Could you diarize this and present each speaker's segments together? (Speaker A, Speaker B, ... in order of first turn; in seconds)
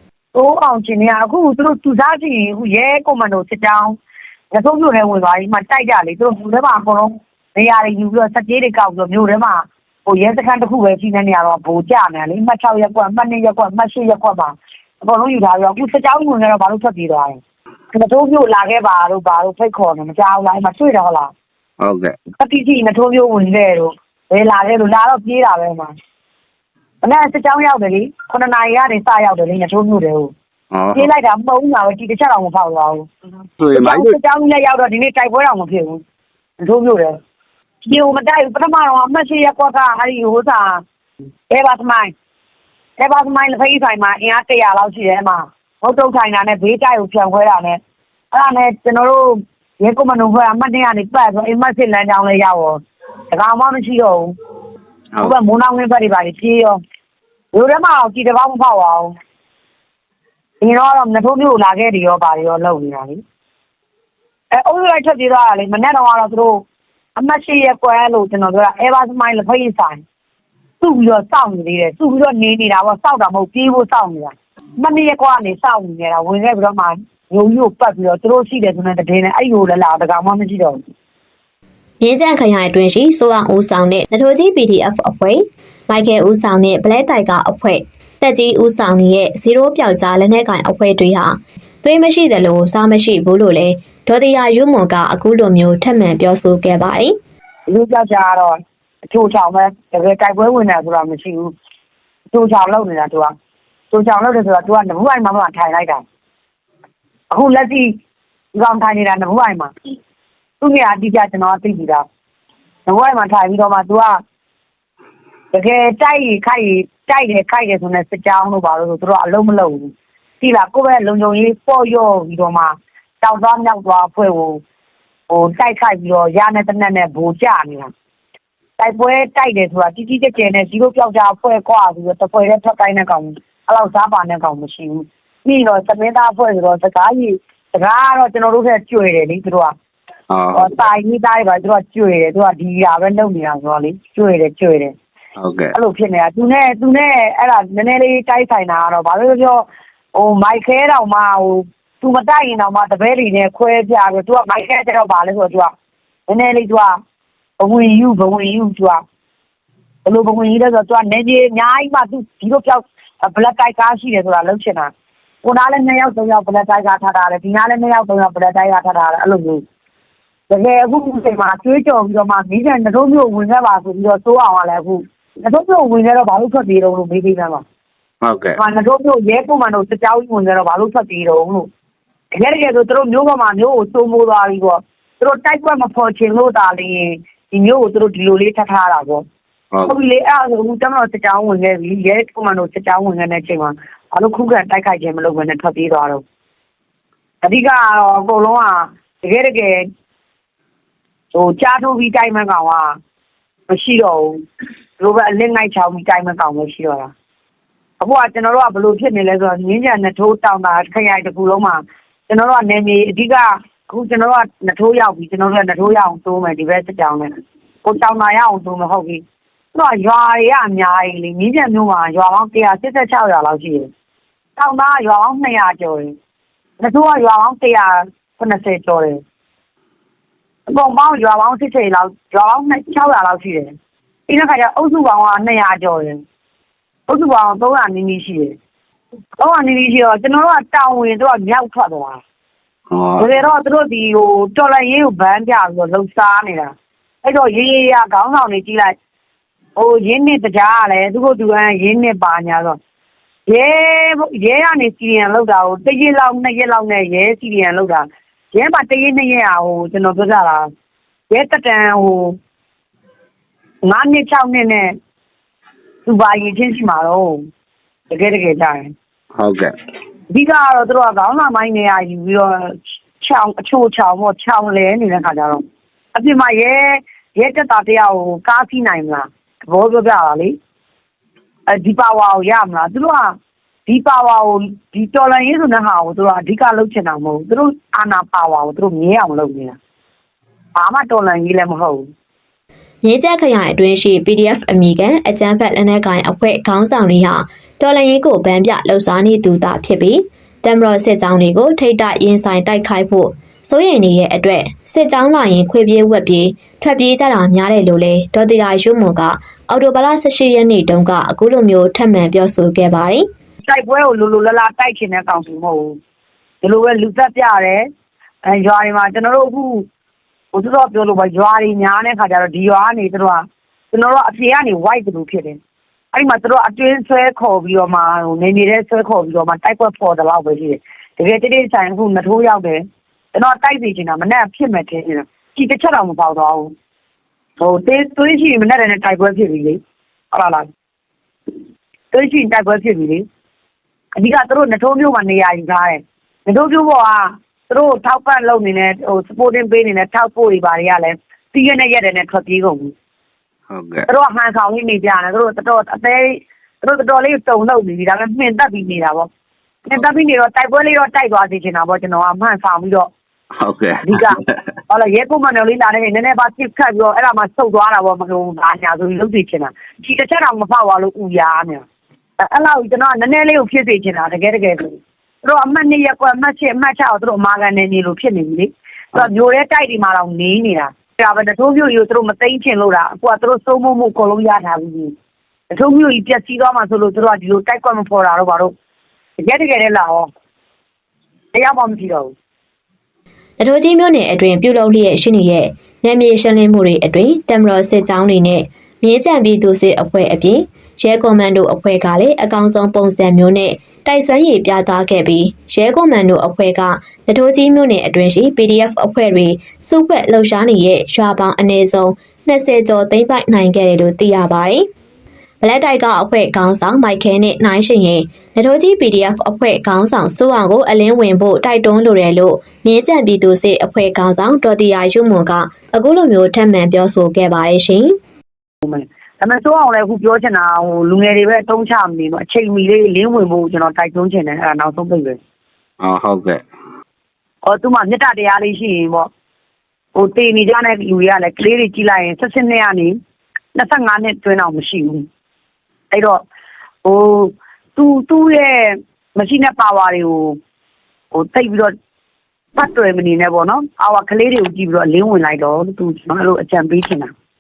Speaker A: 0.3-4.0, 4.5-17.4, 17.9-21.3, 22.4-25.9, 27.0-30.3, 30.9-33.1, 33.7-36.0, 36.6-37.1, 37.9-40.8, 41.5-42.1, 43.0-47.8, 48.3-52.8, 53.3-54.4, 55.2-56.8, 57.5-59.1, 60.6-63.2, 64.5-66.6, 67.2-70.0, 70.8-80.8, 97.7-98.6, 99.1-101.5, 102.3-103.3, 103.9-106.0, 107.3-107.9, 108.5-109.7, 110.6-112.0, 112.9-114.2, 115.5-124.6, 125.3-127.9, 128.8-139.7, 140.6-144.9, 145.8-155.7, 156.3-157.0, 157.6-159.0, 160.1-164.9, 165.4-169.6, 170.5-177.6, 178.6-181.7, 182.3-189.2, 189.8-196.2, 197.4-199.8, 201.3-203.0, 203.7-204.3, 205.0-207.1, 208.0-217.3, 217.8-219.2, 219.7-223.9, 224.6-226.2, 226.8-229.2, 230.7-233.7, 234.3-236.2, 237.1-238.6, 239.4-242.2, 243.2-246.7, 247.2-248.9, 249.8-252.8, 253.5-260.6, 261.3-262.4, 263.9-264.9, 266.1-267.4, 268.1-268.9, 270.3-275.6, 276.1-280.6, 281.7-283.4, 283.9-289.8, 290.8-292.1, 313.6-316.0, 316.6-317.9, 318.5-319.9, 320.5-325.6, 326.1-336.7, 337.6-339.8, 340.3-340.7, 342.1-343.3, 344.2-352.9, 354.1-359.3, 359.9-363.1, 364.1-364.4, 364.9-371.8, 372.4-385.1, 385.7-388.7, 389.4-390.3, 391.5-392.3, 428.8-435.4, 437.6-439.3, 440.1-443.2, 443.8-445.3, 446.1-446.4, 447.1-450.6, 451.3-451.9, 452.8-457.3
Speaker B: 21.8-22.1, 30.7-31.1, 33.6-34.2, 140.3-140.9, 145.4-145.7, 178.2-178.6, 242.9-243.3, 269.4-269.7, 353.7-354.1, 363.6-364.6, 436.0-436.6
Speaker C: 82.0-97.2, 293.0-313.3, 393.6-414.9, 415.6-428.2